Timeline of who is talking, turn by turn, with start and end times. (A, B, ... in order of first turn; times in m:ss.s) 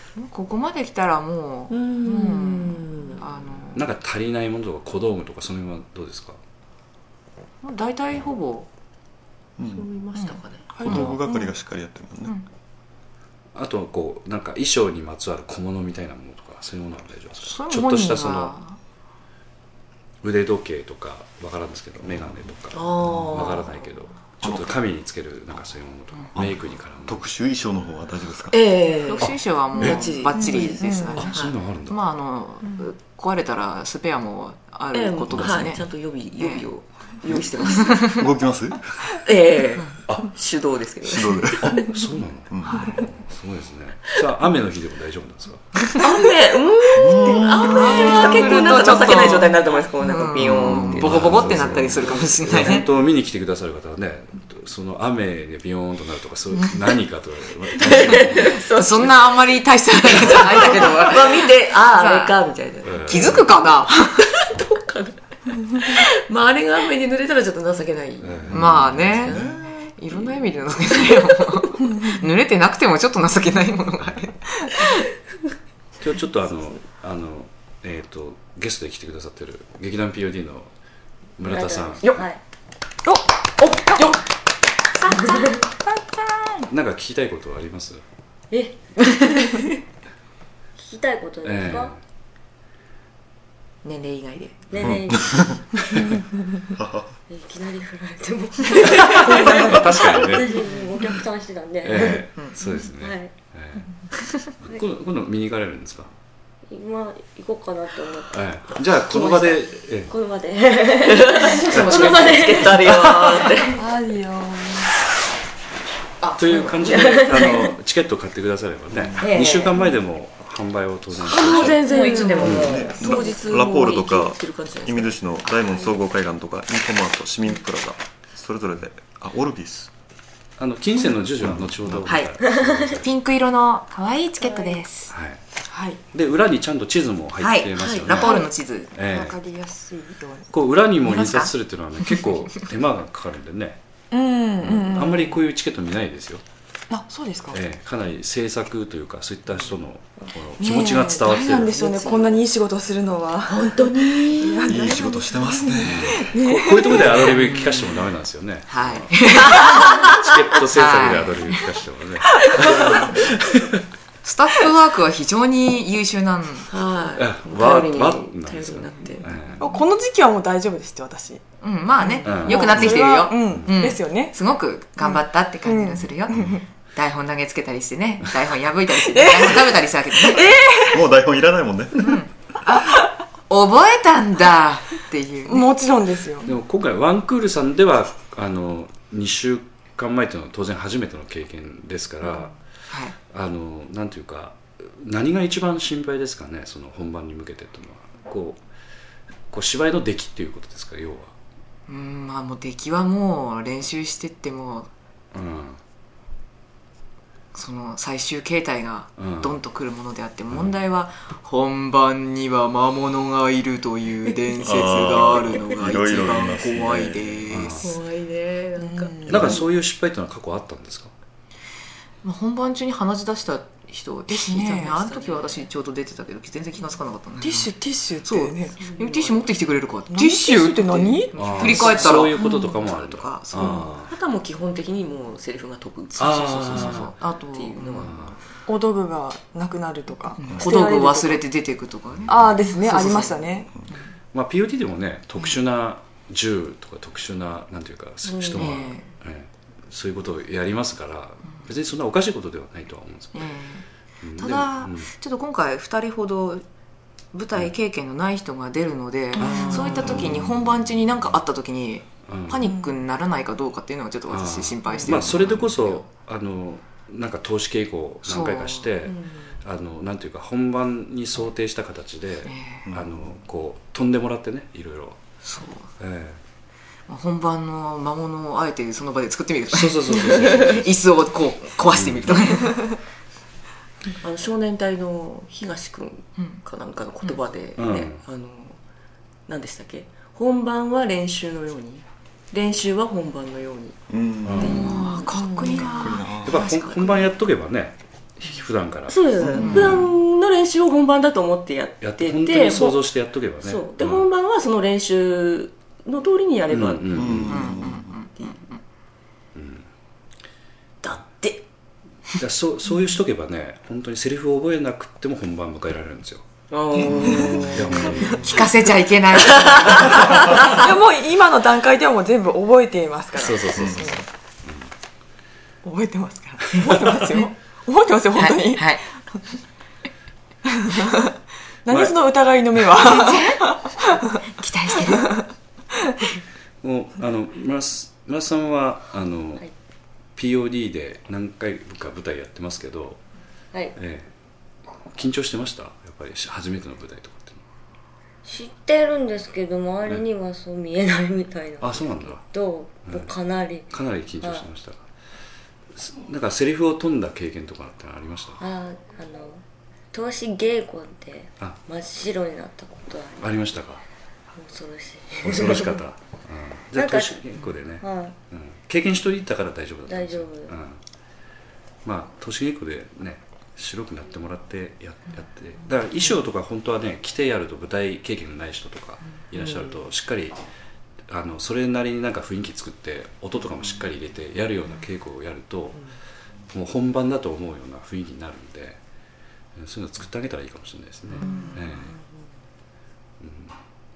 0:00.2-0:03.9 A
0:01.7-0:03.2 B
0:03.7-0:06.4 C
0:07.6-0:08.7 A
0:09.6-0:09.9 D
0:09.6-0:10.8 B
0:10.2-0:11.2 A
0:10.7-0:11.5 E
0:10.8-0:12.3 D
0:13.5-0:18.6 C
0:17.4-0:18.8 A
0:20.2-0:27.2 C
0:22.7-0:23.8 B
0:24.4-0:24.8 D
0:26.3-0:28.6 D
0:28.5-0:31.5 B
0:29.0-0:35.8 A
0:29.2-0:30.0 C
0:30.4-0:31.2 E
0:31.2-0:32.0 C
0:34.9-0:38.2 B
0:36.4-0:36.7 A
0:37.8-0:38.2 A
0:37.9-0:38.8 D
0:39.2-0:41.8 B
0:41.0-0:41.9 D
0:41.6-0:45.8 C
0:42.5-0:43.0 D
0:45.9-0:52.3 B
0:46.9-0:47.8 D
0:47.4-0:52.9 A
0:47.8-0:49.0 E
0:50.5-0:58.6 C
0:50.7-0:51.3 D
0:57.8-0:59.4 B
0:58.4-1:02.4 A
1:00.0-1:03.4 B
1:02.8-1:03.5 C
1:02.9-1:04.3 A
1:04.2-1:09.9 B
1:08.2-1:09.4 C
1:08.5-1:15.0 A
1:08.6-1:09.6 D
1:16.0-1:20.7 C
1:21.4-1:22.2 C
1:21.4-1:22.4 F
1:23.0-1:24.2 E
1:25.0-1:25.5 A
1:25.2-1:25.6 F
1:26.7-1:28.0 C
1:28.5-1:29.5 F
1:30.8-1:31.9 F
1:31.4-1:32.0 C
1:33.8-1:34.7 A
1:34.7-1:35.5 F
1:34.8-1:35.8 D
1:36.7-1:37.1 D
1:37.3-1:43.3 F
1:39.0-1:40.6 C
1:41.8-1:43.9 C
1:44.5-1:46.1 C
1:46.7-1:52.9 F
1:48.3-1:50.1 C
1:51.1-1:53.8 B
1:51.7-1:53.6 C
1:53.8-1:54.9 E
1:56.4-2:01.8 C
1:56.7-1:57.7 F
1:59.2-1:59.7 F
2:01.2-2:05.1 B
2:01.8-2:03.2 F
2:01.9-2:02.4 E
2:02.1-2:02.4 A
2:02.4-2:02.8 C
2:02.4-2:09.9 D
2:10.6-2:13.1 C
2:11.4-2:12.1 D
2:12.5-2:13.0 F
2:13.0-2:15.1 A
2:15.1-2:15.4 C
2:15.7-2:16.0 E
2:16.1-2:18.4 C
2:17.4-2:18.9 A
2:17.8-2:18.1 B
2:18.1-2:18.5 E
2:18.9-2:19.4 C
2:19.0-2:20.5 E
2:20.5-2:23.8 C
2:21.0-2:21.5 A
2:24.1-2:25.4 E
2:24.6-2:26.4 C
2:26.9-2:27.6 E
2:27.5-2:31.8 C
2:30.6-2:37.2 E
2:33.5-2:34.9 B
2:34.7-2:36.2 D
2:35.8-2:43.8 C
2:37.1-2:38.0 A
2:38.7-2:40.1 A
2:39.5-2:40.0 B
2:40.7-2:41.7 A
2:44.2-2:46.7 A
2:46.7-2:49.4 B
2:47.2-2:49.7 C
2:49.6-2:51.4 E
2:51.6-3:00.5 A
2:52.0-2:54.4 E
2:52.2-2:52.9 C
2:55.0-2:56.6 E
2:59.0-3:01.0 E
3:00.7-3:02.2 D
3:02.0-3:05.7 A
3:05.4-3:06.5 E
3:06.4-3:12.6 C
3:13.3-3:18.6 C
3:19.5-3:21.3 C
3:21.9-3:24.9 A
3:25.3-3:25.8 C
3:27.5-3:37.8 A
3:29.2-3:29.6 C
3:30.5-3:30.8 C
3:34.6-3:37.5 D
3:37.5-3:37.9 C
3:37.8-3:39.6 B
3:38.8-3:39.5 E
3:39.3-3:41.1 C
3:42.2-3:47.7 A
3:44.3-3:44.9 E
3:44.7-3:45.6 B
3:47.4-3:48.8 E
3:48.2-3:53.9 A
3:48.8-3:49.4 B
3:50.1-3:52.8 E
3:51.3-3:54.1 C
3:53.6-3:58.3 B
3:56.2-3:57.1 C
3:56.6-3:58.1 A
3:58.0-3:58.4 C
3:58.7-4:01.4 E
4:00.4-4:04.0 A
4:00.7-4:01.1 F
4:02.3-4:03.7 E
4:04.3-4:13.5 C
4:08.3-4:08.7 F
4:08.6-4:09.0 A
4:13.3-4:13.8 A
4:14.2-4:15.1 C
4:14.4-4:16.6 A
4:17.3-4:26.0 A
4:19.4-4:20.1 E
4:19.4-4:20.6 C
4:22.3-4:22.7 C
4:22.6-4:22.9 E
4:24.3-4:35.2 C
4:24.9-4:25.2 E
4:28.2-4:28.9 A
4:29.0-4:29.5 B
4:32.5-4:32.8 A
4:32.9-4:33.2 D
4:35.4-4:35.9 A
4:36.0-4:36.4 C
4:37.1-4:42.9 A
4:39.7-4:40.9 C
4:41.9-4:42.6 C
4:44.2-4:48.8 B
4:47.8-4:48.2 C
4:49.5-4:54.0 B
4:54.1-4:54.9 D
4:54.4-4:55.0 C
4:54.6-4:57.3 B
4:54.6-4:56.4 A
4:55.3-4:56.0 E
4:55.9-4:56.6 D
4:56.4-5:00.0 C
4:59.1-5:03.0 B
4:59.4-4:59.9 D
4:59.6-5:00.1 A
5:02.0-5:04.3 C
5:03.6-5:07.4 B
5:06.7-5:07.8 C
5:07.1-5:08.1 D
5:07.4-5:08.8 A
5:09.5-5:09.8 C
5:11.0-5:11.6 B
5:12.3-5:16.4 C
5:16.7-5:18.4 B
5:17.0-5:18.7 C
5:18.2-5:20.2 A
5:19.4-5:20.7 B
5:20.3-5:24.2 E
5:23.4-5:24.9 C
5:23.8-5:24.0 D
5:25.8-5:29.0 E
5:26.8-5:27.1 C
5:28.4-5:29.0 A
5:30.7-5:31.3 E
5:31.8-5:34.4 E
5:31.9-5:32.2 C
5:33.0-5:33.7 A
5:34.5-5:35.3 A
5:35.0-5:35.4 E
5:36.8-5:39.6 C
5:40.4-5:43.2 C
5:44.0-5:44.3 C
5:45.1-5:47.6 C
5:48.4-5:54.7 F
5:51.8-5:52.4 C
5:53.9-5:55.0 C
5:55.9-5:58.6 C
5:58.6-6:03.4 F
6:03.4-6:04.0 C
6:04.6-6:06.0 F
6:05.4-6:11.0 C
6:06.9-6:08.3 F
6:10.1-6:10.7 F
6:12.0-6:20.6 C
6:21.3-6:26.1 C
6:26.7-6:29.0 C
6:29.8-6:32.1 C
6:31.4-6:32.0 A
6:33.4-6:33.7 C